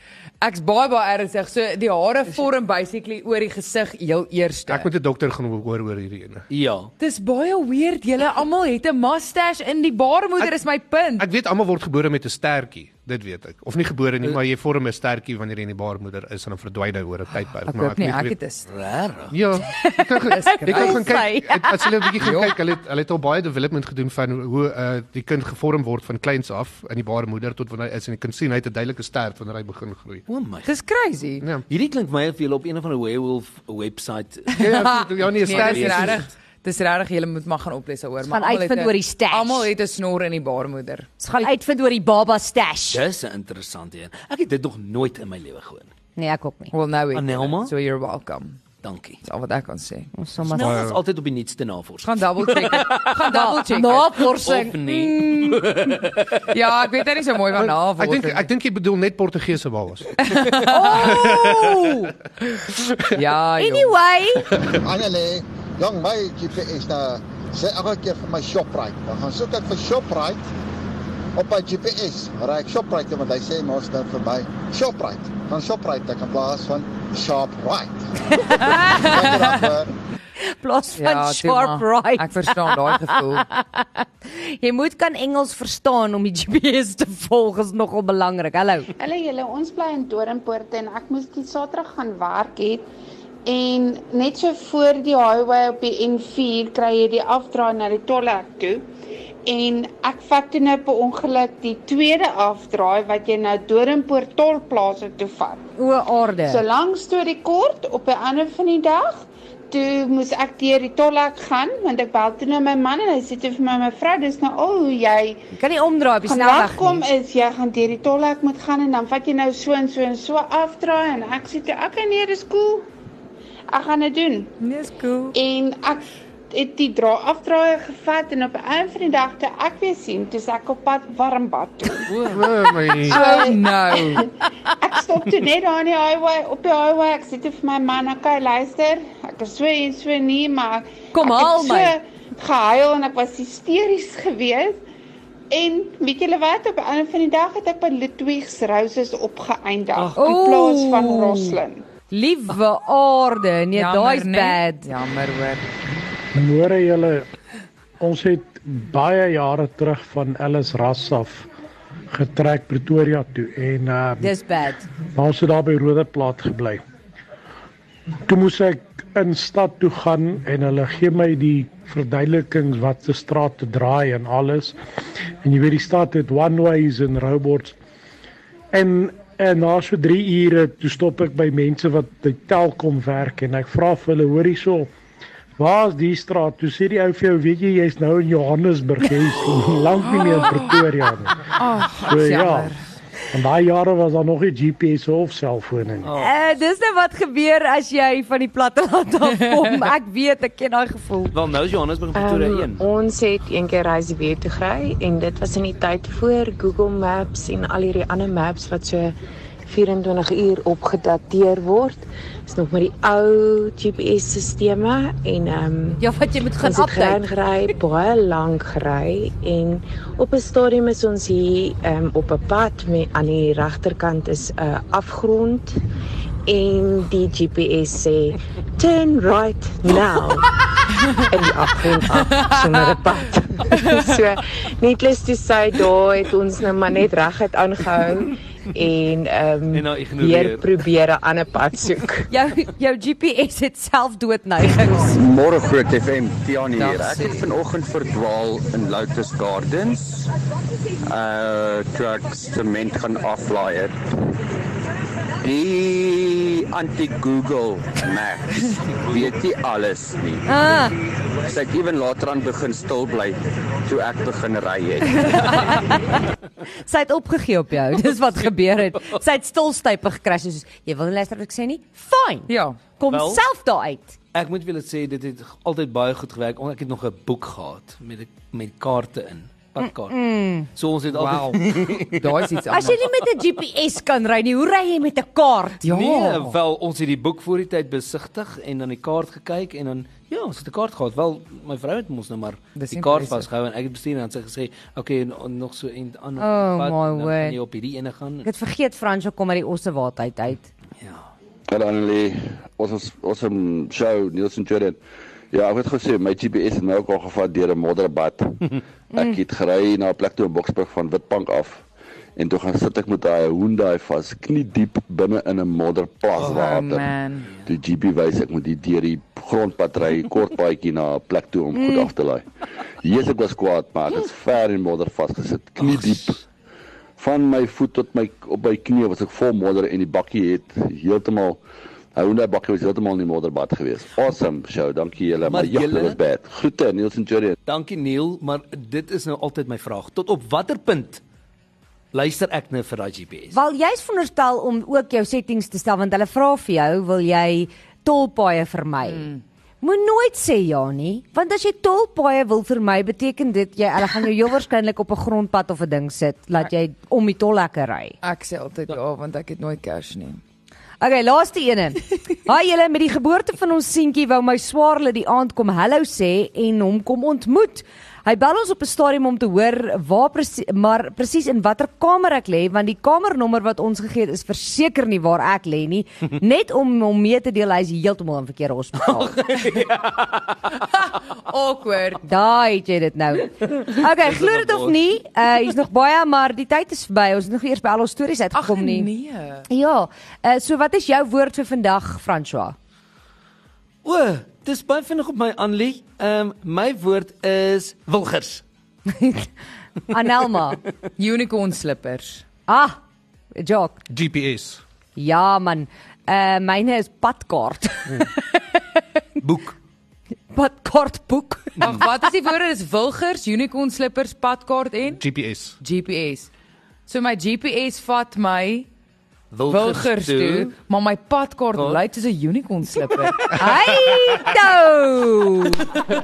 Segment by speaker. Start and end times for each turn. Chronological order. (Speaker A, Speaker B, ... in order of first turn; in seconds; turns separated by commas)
Speaker A: 0.4-4.9, Speaker B: 4.7-6.4, Speaker C: 6.5-6.9, Speaker A: 7.0-11.2, Speaker B: 11.2-18.4, Speaker A: 17.6-18.7, Speaker C: 18.7-19.3, Speaker B: 19.3-30.2, Speaker D: 19.8-22.0, Speaker A: 20.3-21.2, Speaker A: 22.2-22.5, Speaker C: 30.3-30.7, Speaker A: 30.6-31.4, Speaker C: 31.7-34.7, Speaker A: 34.5-41.5, Speaker B: 34.6-36.2, Speaker C: 35.2-36.3, Speaker D: 38.2-39.7, Speaker D: 41.2-43.0, Speaker C: 42.9-45.9, Speaker D: 46.1-46.7, Speaker A: 46.7-48.6, Speaker C: 47.1-47.7, Speaker C: 48.8-49.2, Speaker A: 49.2-50.1, Speaker D: 50.1-50.9, Speaker C: 50.5-53.1, Speaker B: 50.6-51.0, Speaker A: 52.0-54.1, Speaker D: 53.0-55.6, Speaker C: 54.4-56.4, Speaker A: 56.5-58.5, Speaker B: 57.5-60.1, Speaker A: 60.2-61.1, Speaker D: 60.7-62.1, Speaker B: 61.1-61.8, Speaker A: 63.1-64.0, Speaker D: 63.6-64.5, Speaker E: 64.8-70.4, Speaker E: 71.3-78.2, Speaker A: 78.5-79.6, Speaker E: 79.0-79.9, Speaker D: 80.6-88.9, Speaker A: 80.9-83.4, Speaker F: 89.0-92.9, Speaker F: 93.5-98.8, Speaker F: 99.5-105.6, Speaker D: 105.8-106.6, Speaker F: 106.5-115.4, Speaker D: 115.5-117.1, Speaker F: 116.2-122.9, Speaker F: 123.7-124.5, Speaker A: 124.6-125.3, Speaker F: 125.3-132.1, Speaker B: 132.3-133.4, Speaker A: 132.9-134.3, Speaker F: 133.1-133.6, Speaker F: 134.8-144.8, Speaker D: 141.1-141.9, Speaker F: 145.5-151.8, Speaker C: 149.9-150.3, Speaker D: 150.2-151.6, Speaker D: 152.1-154.8, Speaker A: 153.7-155.7, Speaker G: 156.3-157.3, Speaker G: 158.0-161.4, Speaker G: 162.1-164.3, Speaker D: 164.2-164.8, Speaker G: 165.2-166.8, Speaker G: 168.3-174.8, Speaker G: 175.4-177.8, Speaker G: 178.7-184.9, Speaker G: 185.6-191.3, Speaker A: 190.0-190.8, Speaker A: 191.6-192.8, Speaker G: 191.9-192.7, Speaker G: 193.3-196.1, Speaker C: 196.0-196.3, Speaker D: 196.2-201.3, Speaker C: 201.3-202.8, Speaker H: 202.1-216.0, Speaker D: 216.0-217.2, Speaker H: 216.6-225.8, Speaker H: 226.5-230.5, Speaker H: 231.3-242.3, Speaker A: 232.3-232.9, Speaker A: 233.7-234.1, Speaker C: 239.7-240.7, Speaker D: 242.3-245.2, Speaker I: 245.1-250.3, Speaker A: 246.7-247.5, Speaker I: 251.1-253.9, Speaker I: 255.4-260.4, Speaker C: 259.0-259.3, Speaker D: 260.4-260.9, Speaker I: 261.4-265.2, Speaker D: 265.1-274.1, Speaker A: 272.5-272.8, Speaker C: 273.1-273.4, Speaker C: 274.3-280.2, Speaker D: 279.8-280.7, Speaker C: 280.7-282.5, Speaker A: 281.1-283.0, Speaker D: 282.7-285.9, Speaker C: 285.8-298.5, Speaker A: 285.8-286.5, Speaker A: 292.7-293.5, Speaker D: 296.4-297.6, Speaker D: 298.4-300.7, Speaker C: 301.0-301.2, Speaker J: 301.7-305.0, Speaker J: 305.5-308.6, Speaker J: 309.1-311.8, Speaker J: 312.4-317.1, Speaker C: 316.4-316.8, Speaker A: 316.4-317.5, Speaker J: 317.6-322.4, Speaker D: 321.7-322.1, Speaker J: 323.0-326.4, Speaker C: 325.8-326.4, Speaker J: 327.2-331.6, Speaker J: 332.1-337.6, Speaker C: 335.4-336.2, Speaker C: 337.6-341.2, Speaker C: 342.1-343.6, Speaker D: 343.5-349.2, Speaker A: 349.0-349.4, Speaker D: 349.8-358.2, Speaker A: 358.2-360.4, Speaker D: 361.0-379.3, Speaker C: 379.1-380.4, Speaker A: 381.4-382.2, Speaker D: 382.2-389.1, Speaker C: 384.0-385.0, Speaker A: 388.5-389.6, Speaker D: 389.7-392.7, Speaker C: 394.0-398.6, Speaker D: 399.1-399.5, Speaker D: 400.1-400.8, Speaker A: 401.2-402.4, Speaker D: 402.7-403.0, Speaker D: 403.5-404.0, Speaker B: 404.1-404.8, Speaker D: 405.1-409.0, Speaker C: 409.4-409.7, Speaker D: 410.5-412.0, Speaker C: 411.8-412.0, Speaker A: 411.8-415.2, Speaker B: 415.2-415.8, Speaker A: 415.8-416.5, Speaker A: 417.1-418.9, Speaker C: 419.5-420.7, Speaker A: 419.7-423.6, Speaker C: 421.7-422.0, Speaker D: 423.5-425.9